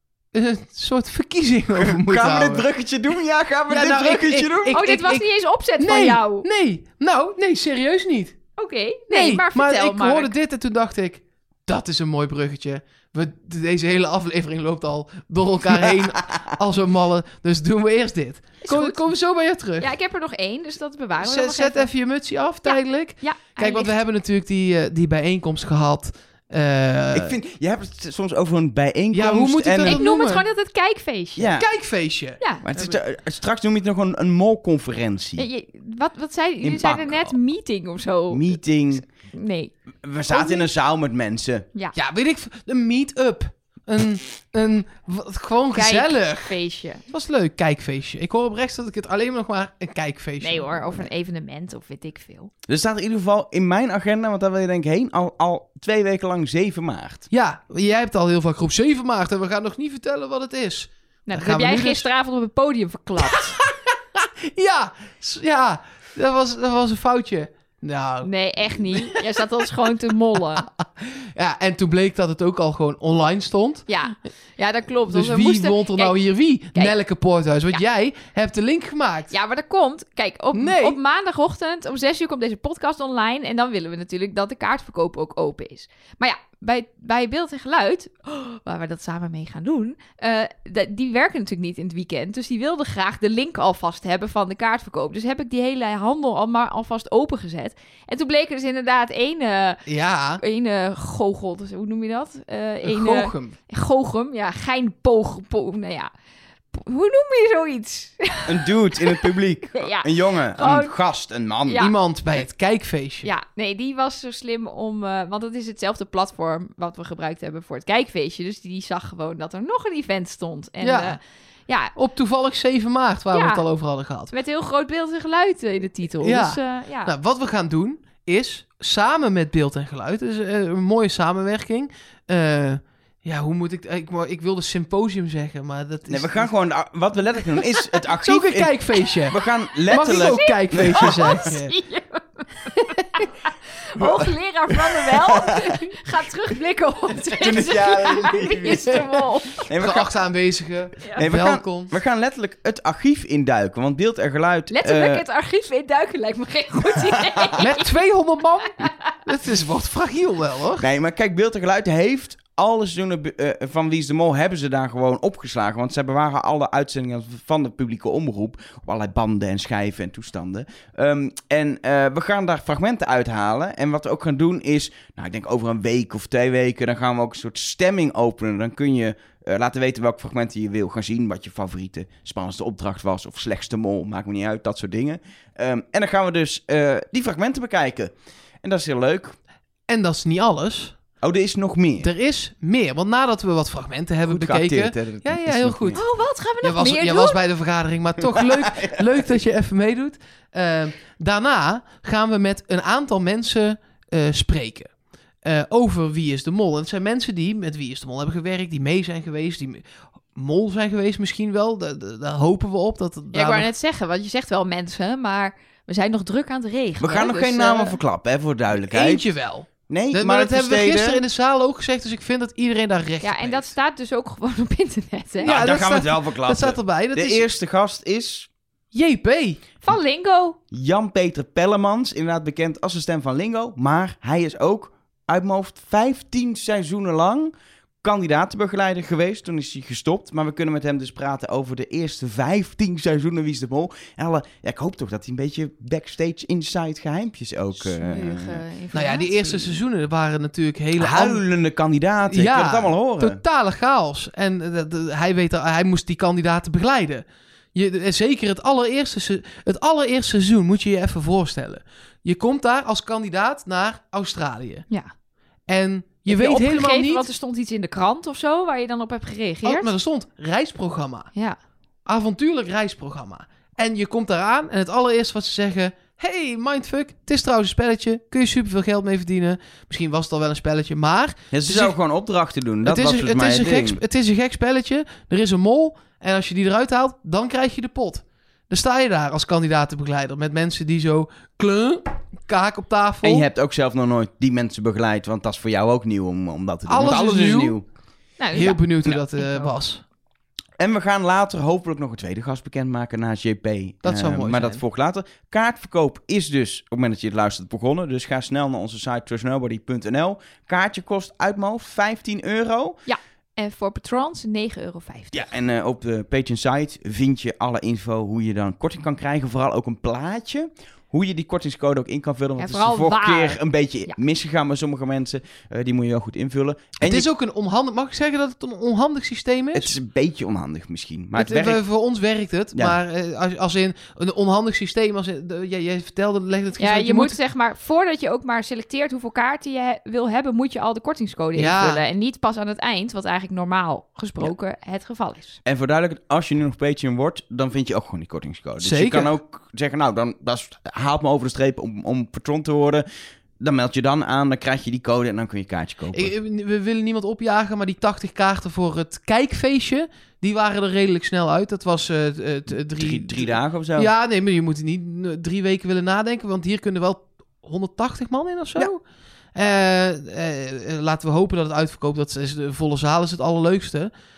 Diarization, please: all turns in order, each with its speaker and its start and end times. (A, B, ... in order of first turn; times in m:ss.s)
0:00.3-0:02.7 A
0:01.8-0:04.8 B
0:03.7-0:08.4 A
0:04.7-0:06.5 C
0:08.6-0:10.3 C
0:09.1-0:19.9 A
0:18.6-0:19.0 C
0:19.8-0:24.0 C
0:21.2-0:27.4 A
0:27.1-0:30.0 B
0:29.1-0:30.4 A
0:29.8-0:31.6 C
0:31.4-0:31.7 B
0:31.5-0:33.0 A
0:32.4-0:32.6 C
0:32.6-0:35.4 B
0:35.4-0:40.7 C
0:36.6-0:37.3 B
0:38.3-0:39.0 B
0:40.0-0:41.6 B
0:41.9-0:46.6 A
0:45.7-0:47.0 C
0:47.1-0:51.1 A
0:50.4-0:52.5 C
0:52.7-0:57.2 B
0:57.3-1:02.0 A
1:01.3-1:03.6 C
1:03.2-1:09.4 A
1:08.2-1:10.7 C
1:10.5-1:13.9 A
1:13.9-1:16.2 C
1:15.1-1:19.3 A
1:19.3-1:46.1 C
1:20.5-1:21.0 A
1:39.9-1:40.4 A
1:42.8-1:43.5 A
1:46.7-1:50.9 C
1:48.5-1:51.9 B
1:51.7-1:51.9 C
1:51.8-1:53.3 A
1:53.2-2:01.9 C
2:00.8-2:01.2 A
2:02.0-2:04.3 A
2:03.3-2:03.6 C
2:04.3-2:07.1 C
2:06.2-2:16.5 A
2:16.1-2:21.3 B
2:18.2-2:19.4 A
2:19.9-2:29.6 C
2:19.9-2:21.7 A
2:24.0-2:24.2 B
2:25.3-2:25.6 B
2:27.4-2:29.0 B
2:28.6-2:29.0 A
2:29.6-2:30.1 B
2:29.7-2:31.9 A
2:31.2-2:35.2 B
2:34.7-2:37.9 C
2:37.6-2:40.8 A
2:40.8-3:09.4 B
3:09.9-3:11.0 A
3:11.2-3:12.1 B
3:12.0-3:16.0 A
3:14.3-3:16.0 B
3:15.9-3:17.4 C
3:16.6-3:33.7 A
3:18.3-3:19.0 B
3:33.3-3:38.0 C
3:37.0-3:39.2 B
3:38.8-3:43.7 A
3:39.9-3:41.2 B
3:43.2-3:45.6 C
3:45.4-3:47.4 A
3:45.4-3:48.5 B
3:48.9-3:49.7 A
3:49.8-3:50.6 C
3:50.7-4:08.6 B
4:07.8-4:09.8 C
4:08.9-4:11.4 A
4:11.0-4:13.4 B
4:12.3-4:24.8 A
4:25.7-4:27.3 A
4:26.2-4:29.9 C
4:29.6-4:31.3 A
4:32.0-4:42.0 A
4:41.5-4:44.0 B
4:42.8-4:53.4 A
4:53.2-4:57.8 B
4:56.9-4:57.9 A
4:58.4-4:59.7 C
4:58.5-5:00.0 A
5:00.8-5:13.0 B
5:04.0-5:04.8 A
5:13.0-5:15.5 C
5:15.3-5:27.3 B
5:22.6-5:24.2 C
5:27.0-5:29.9 A
5:29.7-5:31.8 B
5:31.4-5:37.4 A
5:36.8-5:45.6 C
5:41.5-5:42.0 A
5:45.6-5:53.1 B
5:48.8-5:49.3 A
5:53.6-5:56.3 B
5:56.1-6:09.0 A
6:03.0-6:04.1 B
6:09.5-6:14.1 A